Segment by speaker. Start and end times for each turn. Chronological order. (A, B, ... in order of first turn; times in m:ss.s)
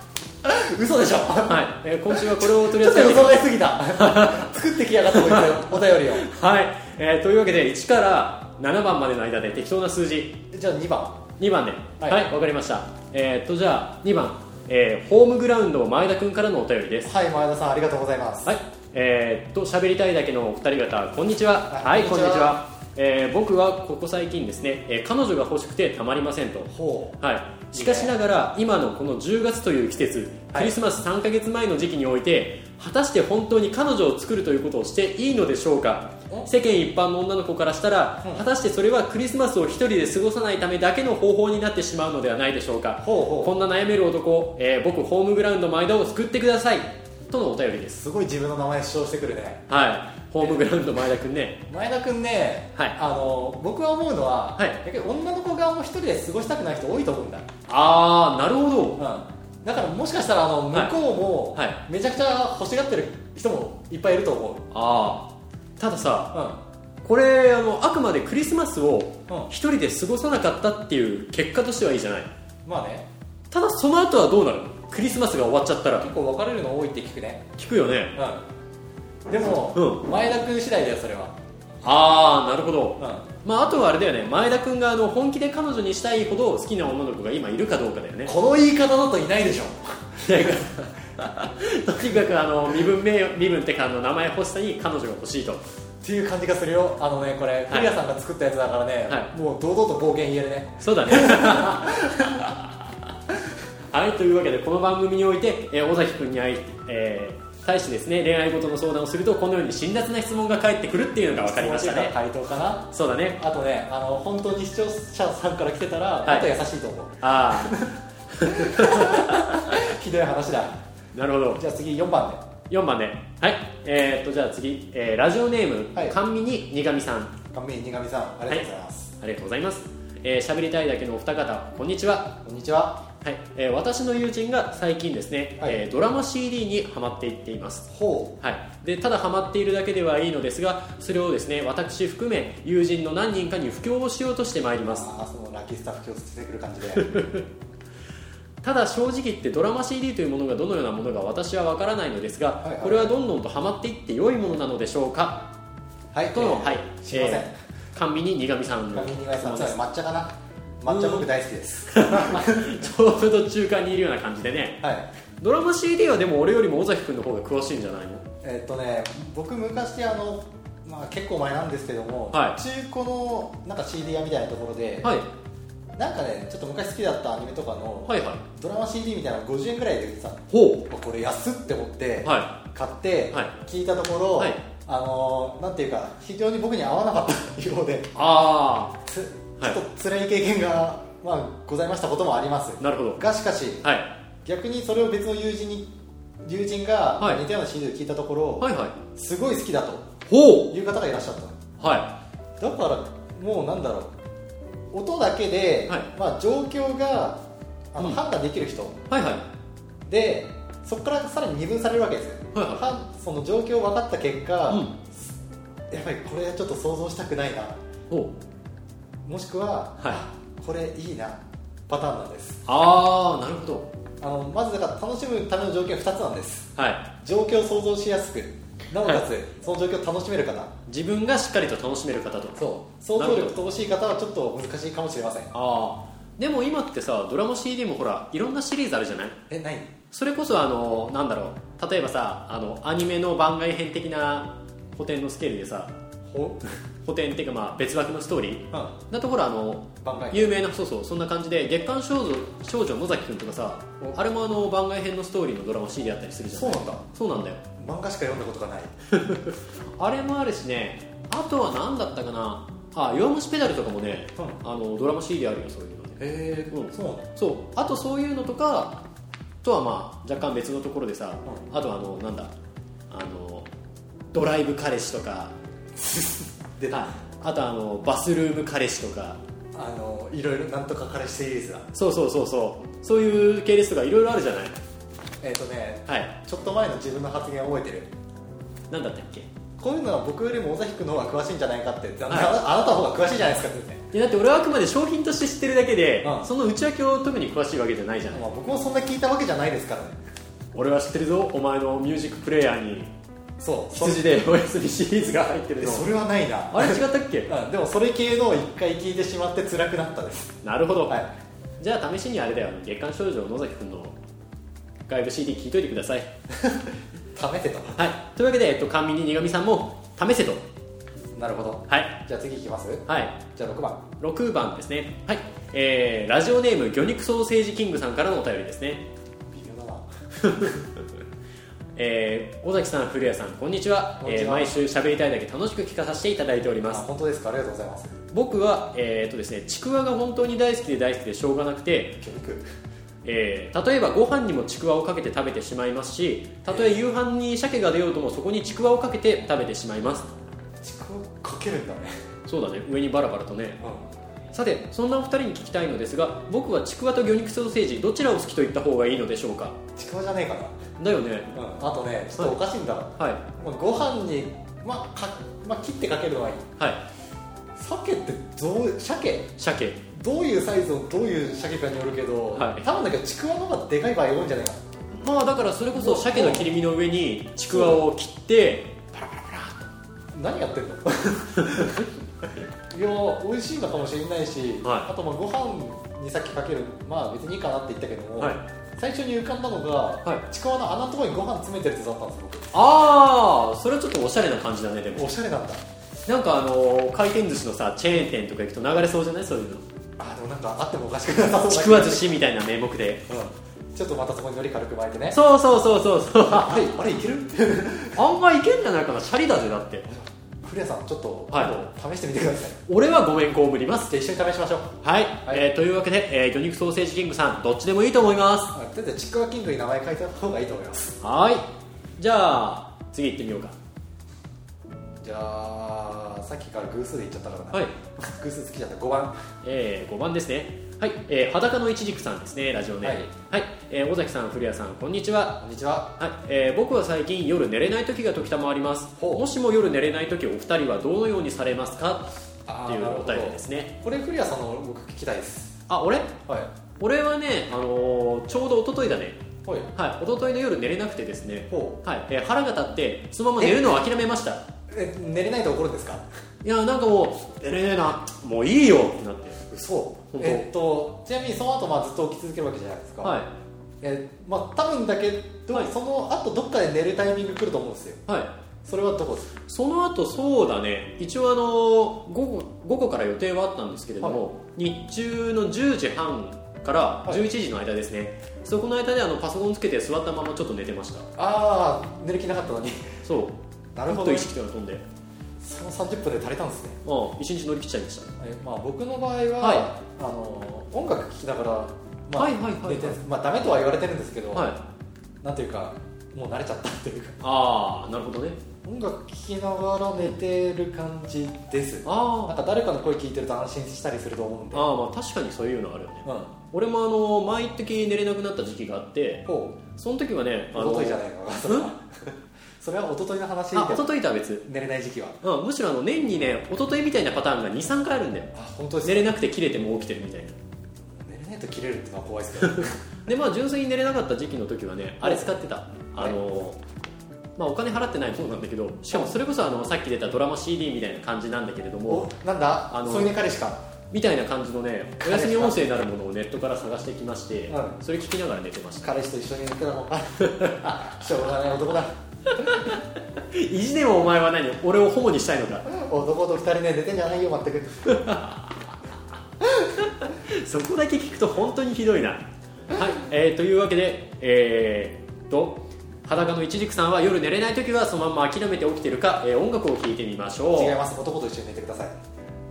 0:00.4-0:06.3 A
0:01.5-0:04.5 B
0:05.1-0:10.4 B
0:10.5-0:11.2 A
0:11.4-0:17.1 B
0:12.0-0:12.3 A
0:17.0-0:18.5 A
0:18.5-0:48.0 B
0:21.7-0:22.6 A
0:26.7-0:27.2 A
0:27.7-0:28.1 A
0:43.0-0:43.6 A
0:48.0-0:49.7 A
0:49.7-0:51.6 B
0:51.7-0:57.5 A
0:57.7-0:59.0 B
0:59.0-1:05.1 A
1:04.7-1:05.3 B
1:05.8-1:06.4 B
1:06.3-1:06.6 A
1:07.0-1:12.3 B
1:12.6-1:13.1 A
1:13.5-1:16.1 B
1:16.0-1:17.4 A
1:17.6-1:18.2 B
1:18.2-1:18.5 A
1:19.3-1:21.4 A
1:19.7-1:20.0 B
1:21.8-1:28.3 B
1:23.0-1:23.3 A
1:28.2-1:30.9 A
1:30.2-1:35.6 B
1:36.0-1:42.7 A
1:40.8-1:42.0 B
1:43.9-1:52.2 B
1:51.3-2:00.8 A
1:52.9-1:53.4 B
1:56.2-1:56.5 B
1:57.2-1:59.7 B
2:01.1-2:01.6 B
2:01.6-2:02.4 A
2:02.7-2:07.4 B
2:07.5-2:09.1 A
2:09.2-2:12.4 B
2:12.4-2:13.0 A
2:13.2-2:17.9 B
2:17.9-2:18.4 A
2:18.4-2:25.1 B
2:24.9-2:27.3 A
2:27.0-2:27.4 B
2:28.6-2:35.5 B
2:32.6-2:33.2 A
2:36.1-2:37.5 A
2:36.3-2:39.8 B
2:38.9-2:42.9 A
2:40.9-2:41.3 B
2:41.9-2:44.8 B
2:44.8-2:45.1 A
2:45.4-2:48.2 B
2:48.4-2:55.1 A
2:52.3-2:52.6 B
2:55.0-2:55.3 B
2:56.0-3:08.1 A
2:58.1-2:58.4 B
3:00.5-3:00.8 B
3:02.2-3:02.5 B
3:08.2-3:09.0 B
3:09.1-3:13.8 A
3:12.8-3:13.2 B
3:13.8-3:14.1 B
3:14.4-3:15.9 A
3:16.4-3:20.1 A
3:18.6-3:19.0 B
3:20.3-3:20.7 B
3:20.7-3:21.7 A
3:21.8-3:22.1 B
3:22.6-3:24.2 A
3:24.9-3:27.4 A
3:27.9-3:29.0 A
3:29.1-3:29.4 B
3:30.1-3:35.0 A
3:32.5-3:32.8 B
3:34.7-3:35.0 B
3:35.9-3:37.8 A
3:39.2-3:42.6 A
3:42.7-3:43.9 B
3:44.2-3:50.7 A
3:46.8-3:47.0 B
3:50.9-3:53.5 B
3:52.6-3:55.5 A
3:55.5-3:59.4 B
3:59.5-3:59.9 A
4:00.1-4:05.9 B
4:06.3-4:06.6 A
4:07.0-4:17.6 B
4:10.0-4:10.6 A
4:16.6-4:17.0 A
4:17.7-4:19.0 A
4:19.1-4:29.0 B
4:26.2-4:27.3 A
4:29.6-4:32.5 B
4:33.1-4:33.7 B
4:34.3-4:35.5 B
4:36.0-4:37.1 A
4:36.9-4:39.4 B
4:39.8-4:41.9 A
4:41.9-4:44.8 B
4:45.4-4:48.1 A
4:48.9-4:49.5 B
4:49.8-4:54.0 A
4:54.1-4:58.5 B
4:56.2-4:56.5 A
4:58.3-5:00.2 A
5:00.7-5:03.1 B
5:03.6-5:04.5 A
5:03.9-5:06.1 B
5:05.8-5:10.6 A
5:06.7-5:07.5 B
5:10.6-5:11.2 B
5:11.8-5:14.2 B
5:15.1-5:16.3 B
5:16.5-5:18.0 A
5:18.0-5:20.6 B
5:21.3-5:24.1 A
5:23.1-5:23.4 B
5:24.2-5:29.0 B
5:29.5-5:30.1 A
5:30.4-5:30.8 B
5:32.0-5:37.0 B
5:34.2-5:34.8 A
5:36.9-5:38.2 A
5:38.3-5:42.2 B
5:42.2-5:42.7 A
5:43.2-5:50.3 B
5:46.7-5:47.0 A
5:50.8-5:52.2 A
5:52.5-5:53.8 B
5:54.5-5:59.8 B
6:00.0-6:00.8 A
6:01.0-6:01.6 B
6:01.6-6:06.7 A
6:03.2-6:03.4 B
6:07.8-6:09.5 A
6:09.6-6:10.0 B
6:10.1-6:14.8 A
6:12.6-6:12.9 B
6:15.1-6:19.8 B
6:15.9-6:16.7 A
6:17.7-6:18.0 A
6:20.3-6:32.8 A
6:21.6-6:22.0 B
6:24.8-6:25.1 B
6:32.7-6:35.3 B
6:35.2-6:35.8 A
6:36.3-6:39.8 B
6:40.2-6:42.3 A
6:41.6-6:43.3 B
6:43.3-6:45.4 A
6:45.3-6:46.9 B
6:46.5-6:48.3 A
6:48.2-6:50.1 B
6:50.1-6:52.8 A
6:52.9-6:54.1 B
6:54.1-6:55.6 A
6:55.0-6:58.7 B
6:58.7-7:01.2 A
7:01.2-7:03.8 B
7:05.2-7:09.3 A
7:09.6-7:15.6 B
7:13.0-7:13.3 A
7:15.6-7:16.1 A
7:16.2-7:22.3 B
7:19.2-7:19.4 A
7:22.7-7:25.8 A
7:22.8-7:23.9 B
7:25.9-7:26.4 B
7:26.5-7:26.7 A
7:27.0-7:29.4 B
7:29.6-7:29.9 A
7:29.9-7:34.6 B
7:31.7-7:32.0 A
7:33.6-7:34.0 A
7:34.9-7:36.2 A
7:36.6-7:39.6 B
7:39.7-7:43.4 A
7:40.3-7:40.7 B
7:43.2-7:43.5 B
7:44.0-7:48.2 A
7:48.3-7:48.5 B
7:48.8-7:49.5 A
7:49.7-8:01.3 B
8:01.4-8:03.2 A
8:03.2-8:05.0 B
8:04.0-8:04.5 A
8:05.6-8:07.0 A
8:07.0-8:08.3 B
8:08.4-8:14.7 A
8:09.6-8:09.9 B
8:12.4-8:13.2 B
8:14.5-8:14.8 B
8:15.4-8:17.4 A
8:17.4-8:18.6 B
8:18.8-8:24.9 A
8:22.0-8:22.6 B
8:24.7-8:31.9 B
8:26.2-8:26.6 A
8:29.5-8:29.8 A
8:30.7-8:34.1 A
8:33.7-8:34.7 B
8:34.6-8:35.4 A
8:35.4-8:40.6 B
8:38.5-8:39.4 A
8:41.0-8:43.0 A
8:42.6-8:46.8 B
8:45.2-8:45.5 A
8:47.6-8:52.3 B
8:52.1-8:53.8 A
8:52.9-8:53.3 B
8:54.1-8:59.1 B
8:55.2-8:56.0 A
8:57.7-8:58.0 A
8:59.0-9:02.2 A
9:00.4-9:01.0 B
9:02.5-9:05.9 B
9:05.9-9:08.4 A
9:08.1-9:08.6 B
9:09.6-9:09.9 A
9:10.0-9:21.0 B
9:20.7-9:22.2 A